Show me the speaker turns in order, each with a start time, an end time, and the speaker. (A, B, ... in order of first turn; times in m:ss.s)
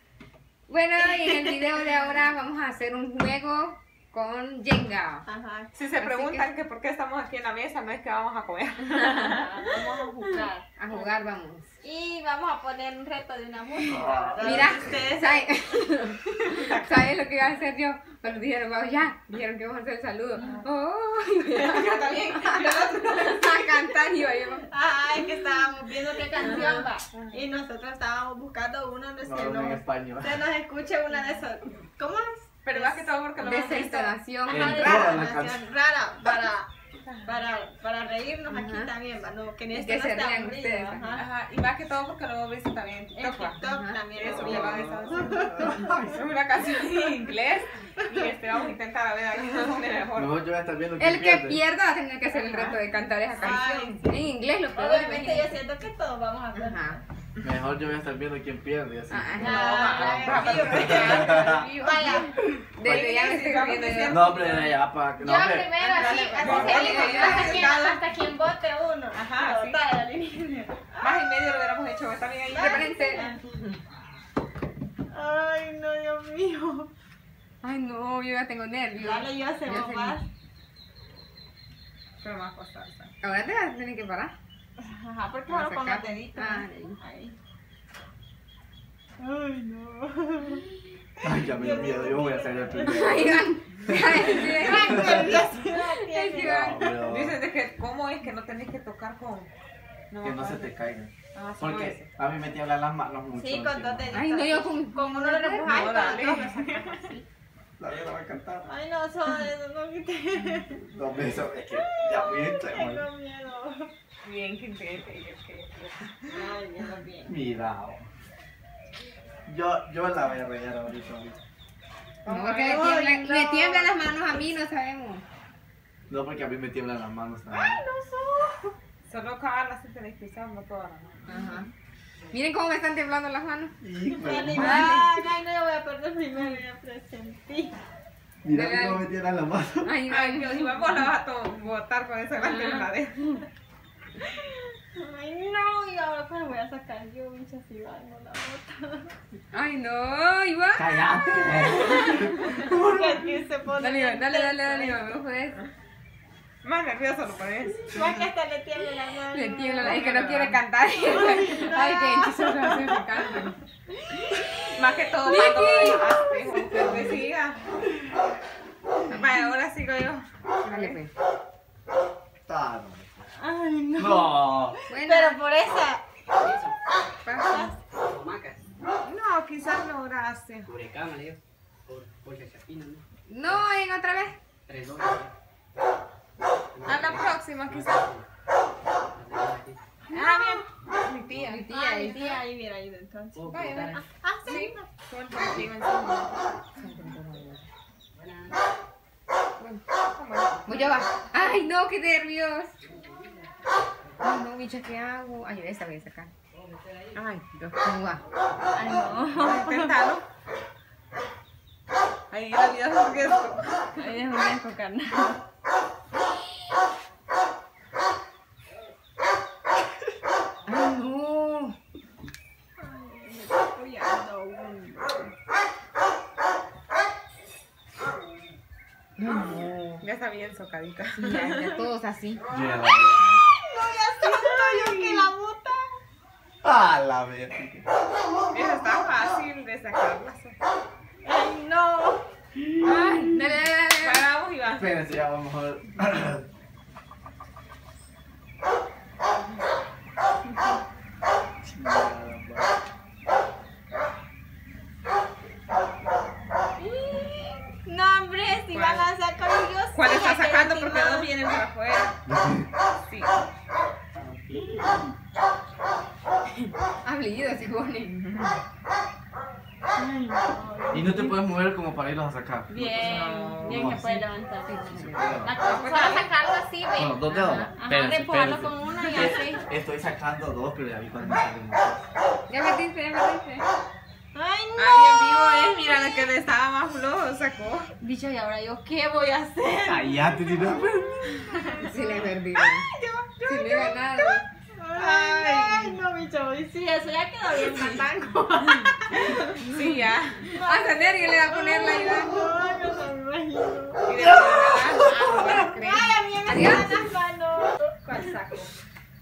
0:00.7-0:05.2 A
0:01.0-0:01.7 B
0:05.2-0:05.7 B
0:05.7-0:09.9 C
0:06.0-0:06.5 A
0:08.8-0:11.1 B
0:10.8-0:11.7 A
0:11.8-0:15.5 B
0:13.9-0:14.8 D
0:14.4-0:24.7 A
0:21.5-0:23.8 C
0:24.7-0:33.1 B
0:26.4-0:27.4 C
0:29.2-0:30.4 D
0:32.6-0:34.2 C
0:33.4-0:35.2 A
0:34.5-0:35.6 D
0:34.5-0:36.7 B
0:37.0-0:37.3 C
0:37.2-0:41.2 B
0:38.5-0:38.9 A
0:39.7-0:41.1 A
0:41.1-0:50.3 C
0:43.1-0:45.9 B
0:43.7-0:44.0 A
0:44.3-0:46.3 D
0:50.2-0:51.6 D
0:51.0-0:55.6 A
0:53.4-0:57.0 B
0:56.6-0:57.0 A
0:57.4-1:01.6 D
0:59.1-1:00.4 A
0:59.4-1:02.6 B
0:59.4-1:02.3 C
1:02.8-1:04.2 A
1:02.8-1:04.7 C
1:04.0-1:05.8 D
1:05.2-1:11.3 B
1:05.8-1:07.7 A
1:05.8-1:08.0 C
1:06.4-1:06.8 D
1:09.1-1:09.8 C
1:11.0-1:13.7 C
1:12.5-1:13.4 B
1:12.5-1:13.2 A
1:15.1-1:16.9 B
1:17.6-1:20.2 A
1:19.0-1:20.2 B
1:22.2-1:23.1 C
1:23.2-1:24.3 A
1:24.8-1:27.3 B
1:25.5-1:27.0 A
1:29.2-1:30.6 B
1:31.2-1:33.3 B
1:31.2-1:35.4 D
1:32.9-1:36.8 A
1:34.3-1:37.0 B
1:36.4-1:37.4 D
1:37.0-1:39.5 C
1:40.1-1:40.7 C
1:40.2-1:44.0 D
1:41.3-1:42.1 C
1:43.3-1:47.2 B
1:44.1-1:45.8 A
1:45.6-1:47.1 C
1:47.8-1:48.7 D
1:48.6-1:50.9 B
1:50.9-1:53.0 D
1:51.7-1:53.9 B
1:54.2-1:56.4 C
1:56.3-1:57.3 B
1:57.3-1:58.0 D
1:59.5-2:01.4 D
2:02.2-2:02.8 C
2:02.2-2:05.2 A
2:02.5-2:04.1 B
2:06.1-2:07.8 D
2:07.5-2:08.7 B
2:09.0-2:11.3 C
2:11.3-2:11.7 A
2:12.3-2:13.7 A
2:13.8-2:14.8 D
2:14.0-2:17.8 B
2:14.6-2:15.2 A
2:18.4-2:19.9 D
2:18.5-2:19.1 A
2:19.8-2:21.0 A
2:20.1-2:23.4 C
2:22.3-2:22.9 A
2:24.2-2:29.1 B
2:29.5-2:32.4 A
2:30.8-2:33.2 D
2:31.9-2:35.0 B
2:33.8-2:35.6 A
2:36.6-2:38.1 C
2:37.8-2:40.0 B
2:39.3-2:43.6 A
2:39.8-2:40.6 C
2:41.0-2:43.0 B
2:44.7-2:47.6 C
2:45.2-2:47.3 A
2:49.1-2:49.5 A
2:49.1-2:50.9 C
2:50.6-2:51.1 A
2:52.5-2:53.2 D
2:53.4-2:56.0 B
2:54.0-2:54.8 D
2:54.9-2:55.4 A
2:56.4-2:56.7 E
2:57.2-2:57.7 A
2:57.3-2:57.8 B
2:57.9-2:58.6 E
2:59.0-3:00.7 C
3:00.7-3:03.0 E
3:03.3-3:04.3 A
3:04.7-3:05.3 E
3:06.8-3:08.2 E
3:06.8-3:08.2 C
3:09.1-3:09.8 E
3:10.1-3:11.6 C
3:10.1-3:10.6 B
3:11.3-3:12.4 A
3:11.7-3:14.9 B
3:13.5-3:17.7 C
3:18.2-3:18.6 E
3:19.7-3:20.7 C
3:20.6-3:22.7 A
3:24.2-3:26.3 A
3:27.1-3:27.8 C
3:27.8-3:28.2 A
3:28.7-3:30.0 B
3:29.3-3:30.2 C
3:32.3-3:33.9 C
3:33.9-3:35.4 B
3:40.6-3:41.7 A
3:42.8-3:45.3 B
3:49.2-3:50.0 A
3:50.0-3:51.5 C
3:51.2-3:52.4 A
3:52.5-3:53.2 D
3:53.2-3:56.0 B
3:54.8-3:55.1 C
3:54.9-3:55.2 A
3:56.6-3:57.8 D
3:58.5-4:00.6 C
4:01.2-4:02.2 B
4:02.8-4:04.2 A
4:02.8-4:03.5 B
4:04.0-4:05.0 C
4:04.8-4:06.4 D
4:11.6-4:12.7 D
4:17.0-4:21.3 B
4:18.6-4:19.1 C
4:19.9-4:22.1 C
4:22.3-4:22.7 D
4:23.0-4:23.3 C
4:24.2-4:24.8 D
4:24.7-4:25.0 B
4:27.0-4:28.2 A
4:28.1-4:28.6 C
4:30.0-4:31.6 B
4:30.9-4:33.1 D
4:32.7-4:37.2 B
4:32.8-4:34.0 C
4:33.6-4:34.2 D
4:34.6-4:35.3 A
4:34.9-4:35.6 D
4:35.6-4:36.3 C
4:36.9-4:42.0 D
4:37.3-4:37.7 A
4:37.8-4:39.6 B
4:42.5-4:43.6 A
4:44.3-4:46.3 B
4:44.8-4:47.9 C
4:48.0-4:59.6 B
4:49.8-4:51.4 D
4:51.8-4:52.9 A
4:53.4-4:54.4 A
4:54.9-4:56.0 C
4:59.6-5:00.4 C
5:00.5-5:08.7 B
5:00.5-5:02.5 A
5:04.0-5:06.0 C
5:05.4-5:07.0 A